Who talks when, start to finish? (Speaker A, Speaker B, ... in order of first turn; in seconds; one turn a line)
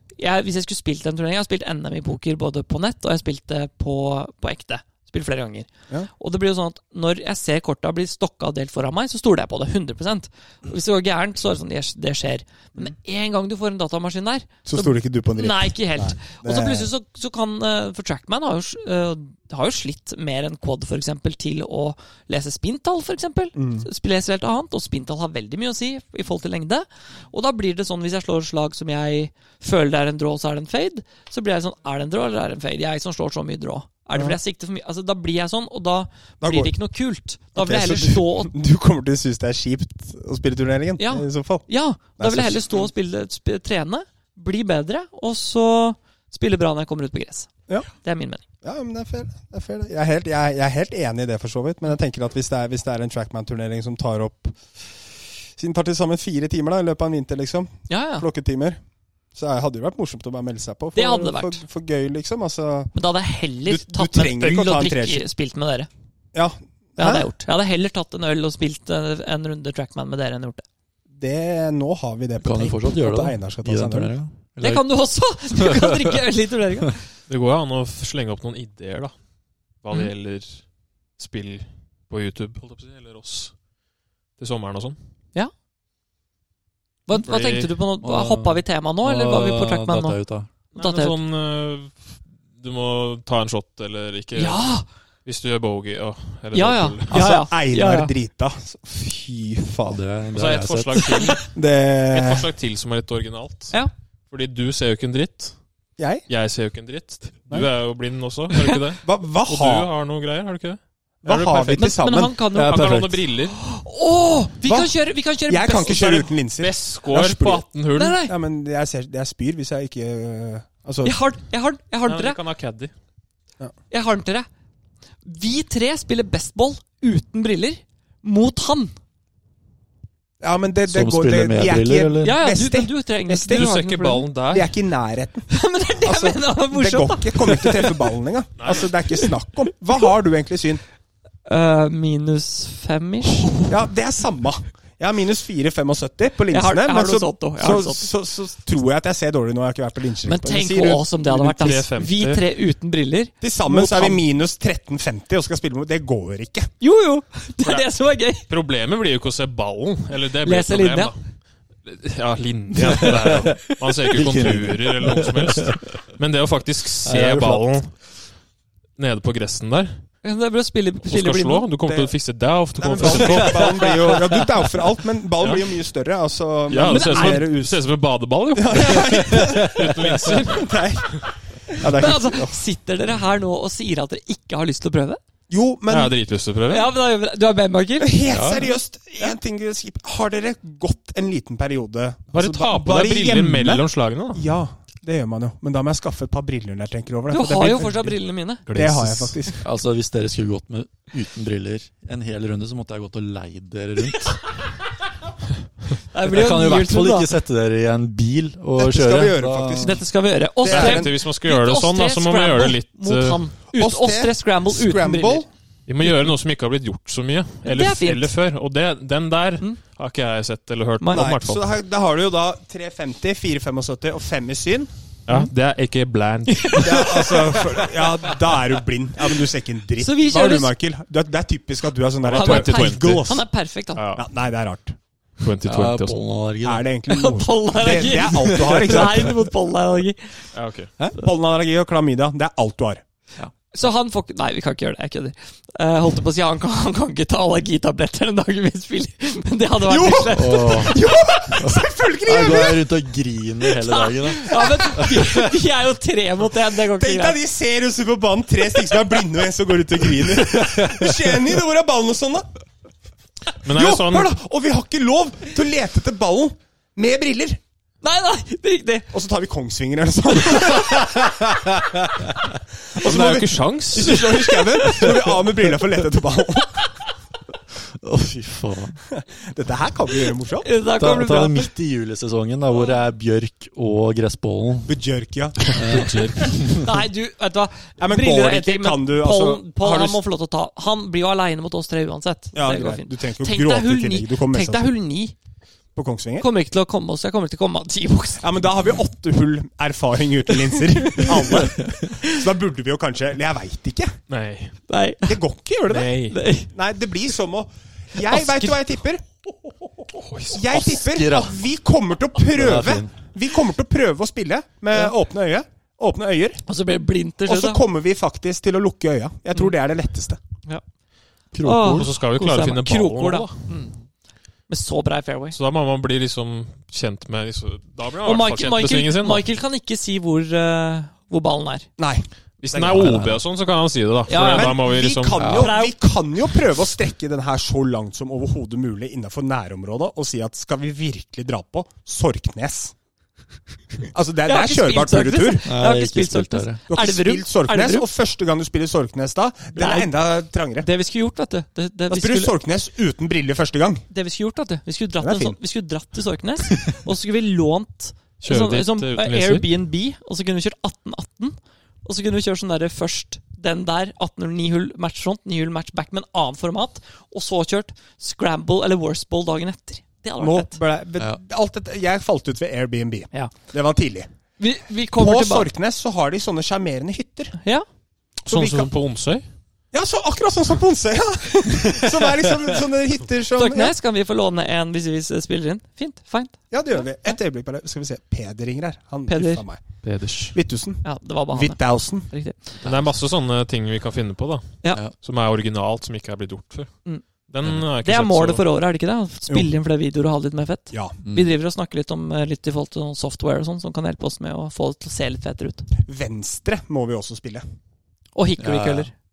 Speaker A: 0.2-38.5
Speaker B: 14.7-16.9
Speaker B: 23.6-23.9
Speaker B: 36.4-36.7
Speaker B: 37.5-41.7
Speaker A: 41.0-48.4
Speaker B: 42.2-42.9
Speaker B: 48.6-54.6
Speaker B: 55.6-58.8
Speaker A: 57.9-58.3
Speaker B: 59.4-62.9
Speaker A: 61.0-61.6
Speaker A: 62.9-65.9
Speaker B: 63.6-65.3
Speaker B: 66.3-67.3
Speaker A: 67.0-70.7
Speaker B: 71.1-74.1
Speaker C: 72.4-74.8
Speaker A: 74.6-77.0
Speaker C: 75.6-76.1
Speaker D: 77.3-79.2
Speaker D: 79.8-83.5
Speaker D: 84.4-85.0
Speaker A: 87.1-90.2
Speaker C: 87.1-90.5
Speaker A: 90.7-91.2
Speaker D: 90.8-94.7
Speaker A: 94.3-94.8
Speaker D: 95.2-97.1
Speaker A: 96.5-98.1
Speaker B: 97.1-100.0
Speaker C: 99.9-101.1
Speaker D: 100.3-101.5
Speaker A: 101.1-101.4
Speaker B: 101.5-102.5
Speaker D: 102.1-103.8
Speaker D: 104.3-105.6
Speaker B: 106.0-106.2
Speaker D: 106.3-112.0
Speaker B: 109.0-109.9
Speaker B: 111.2-112.4
Speaker A: 111.8-112.9
Speaker D: 112.5-113.6
Speaker C: 112.5-113.2
Speaker A: 113.5-116.3
Speaker B: 114.6-115.0
Speaker B: 115.5-117.7
Speaker D: 116.6-118.2
Speaker A: 118.0-118.3
Speaker B: 118.2-121.2
Speaker A: 121.0-122.4
Speaker D: 122.1-122.9
Speaker A: 123.9-124.5
Speaker A: 125.2-128.9
Speaker B: 130.4-133.7
Speaker C: 130.9-132.4
Speaker A: 132.2-134.3
Speaker D: 133.5-134.7
Speaker B: 134.5-135.5
Speaker A: 135.5-138.0
Speaker B: 136.0-140.8
Speaker D: 138.6-138.9
Speaker A: 141.5-143.7
Speaker B: 143.7-151.8
Speaker A: 146.5-148.1
Speaker A: 150.3-154.2
Speaker D: 151.4-152.4
Speaker B: 153.4-156.7
Speaker A: 156.8-158.5
Speaker D: 157.6-161.2
Speaker A: 160.4-161.1
Speaker D: 161.8-168.1
Speaker C: 162.8-165.8
Speaker C: 167.1-167.7
Speaker D: 169.0-170.0
Speaker A: 170.2-171.7
Speaker D: 171.1-173.9
Speaker B: 171.8-172.2
Speaker B: 172.8-177.8
Speaker C: 173.0-174.2
Speaker D: 176.7-181.3
Speaker A: 176.9-177.5
Speaker B: 178.6-182.6
Speaker C: 179.3-180.3
Speaker A: 181.8-185.2
Speaker B: 185.5-186.1
Speaker D: 185.9-186.9
Speaker A: 186.7-188.3
Speaker B: 188.0-198.2
Speaker C: 188.3-188.7
Speaker D: 192.3-194.4
Speaker A: 197.3-198.6
Speaker D: 198.7-199.5
Speaker B: 198.8-199.6
Speaker C: 199.6-204.6
Speaker A: 206.1-207.3
Speaker C: 206.2-209.9
Speaker B: 208.8-210.0
Speaker A: 209.8-215.4
Speaker B: 210.6-211.1
Speaker D: 210.7-213.4
Speaker B: 213.7-215.5
Speaker D: 215.9-221.7
Speaker A: 217.7-218.3
Speaker A: 221.0-221.3
Speaker B: 221.1-224.9
Speaker D: 225.3-227.3
Speaker A: 226.5-227.7
Speaker B: 226.8-233.5
Speaker A: 230.0-230.7
Speaker D: 232.2-233.3
Speaker A: 232.3-234.0
Speaker D: 233.9-234.2
Speaker B: 234.2-235.0
Speaker D: 235.4-236.2
Speaker C: 235.7-236.9
Speaker B: 236.6-239.4
Speaker A: 237.1-240.4
Speaker C: 238.1-239.3
Speaker D: 240.5-240.9
Speaker B: 241.1-243.0
Speaker A: 243.7-251.0
Speaker B: 249.8-252.9
Speaker C: 250.3-255.6
Speaker A: 253.8-257.4
Speaker B: 256.9-262.5
Speaker C: 260.6-261.2
Speaker D: 263.6-264.3
Speaker B: 263.7-267.6
Speaker A: 268.0-269.1
Speaker B: 269.1-271.5
Speaker C: 271.0-271.5
Speaker B: 272.9-276.8
Speaker D: 273.0-274.6
Speaker C: 274.8-275.1
Speaker C: 277.9-279.0
Speaker B: 279.1-280.7
Speaker A: 280.6-281.7
Speaker C: 281.0-284.9
Speaker B: 284.9-286.1
Speaker C: 285.7-286.9
Speaker D: 285.9-286.7
Speaker A: 286.7-295.4
Speaker B: 288.0-290.2
Speaker B: 292.6-294.9
Speaker B: 295.9-296.5
Speaker A: 296.4-298.5
Speaker B: 298.4-304.2
Speaker A: 300.9-302.4
Speaker D: 304.3-304.8
Speaker A: 304.9-305.4
Speaker B: 305.2-306.2
Speaker D: 305.9-306.4
Speaker A: 306.3-306.7
Speaker B: 306.7-309.2
Speaker A: 308.2-308.8
Speaker D: 310.1-310.7
Speaker B: 310.5-316.6
Speaker C: 310.7-311.6
Speaker C: 312.5-313.1
Speaker A: 316.7-317.8
Speaker B: 317.5-320.4
Speaker C: 321.5-322.1
Speaker A: 321.6-323.9
Speaker D: 321.9-323.6
Speaker A: 324.7-325.6
Speaker D: 325.5-329.4
Speaker A: 328.2-331.9
Speaker B: 332.0-333.2
Speaker D: 332.6-335.4
Speaker C: 332.9-333.4
Speaker A: 334.3-334.8
Speaker B: 334.5-342.9
Speaker C: 335.3-335.7
Speaker A: 335.4-335.9
Speaker B: 344.1-345.7
Speaker A: 344.5-348.1
Speaker C: 345.7-346.8
Speaker B: 346.9-350.9
Speaker A: 349.8-350.1
Speaker A: 350.8-352.5
Speaker B: 352.1-354.1
Speaker A: 354.1-370.8
Speaker B: 355.2-355.6
Speaker D: 358.4-359.7
Speaker B: 370.4-374.3
Speaker A: 374.6-375.7
Speaker B: 375.1-377.6
Speaker A: 377.6-377.9
Speaker D: 378.5-379.4
Speaker B: 378.5-378.9
Speaker B: 379.9-383.9
Speaker A: 383.6-386.6
Speaker B: 386.7-390.0
Speaker A: 389.3-389.6
Speaker D: 390.0-390.6
Speaker B: 390.5-392.3
Speaker A: 391.0-392.8
Speaker D: 392.8-398.6
Speaker A: 398.0-405.9
Speaker B: 400.9-401.2
Speaker C: 401.2-401.5
Speaker B: 406.0-407.6
Speaker A: 408.4-409.1
Speaker C: 408.6-409.1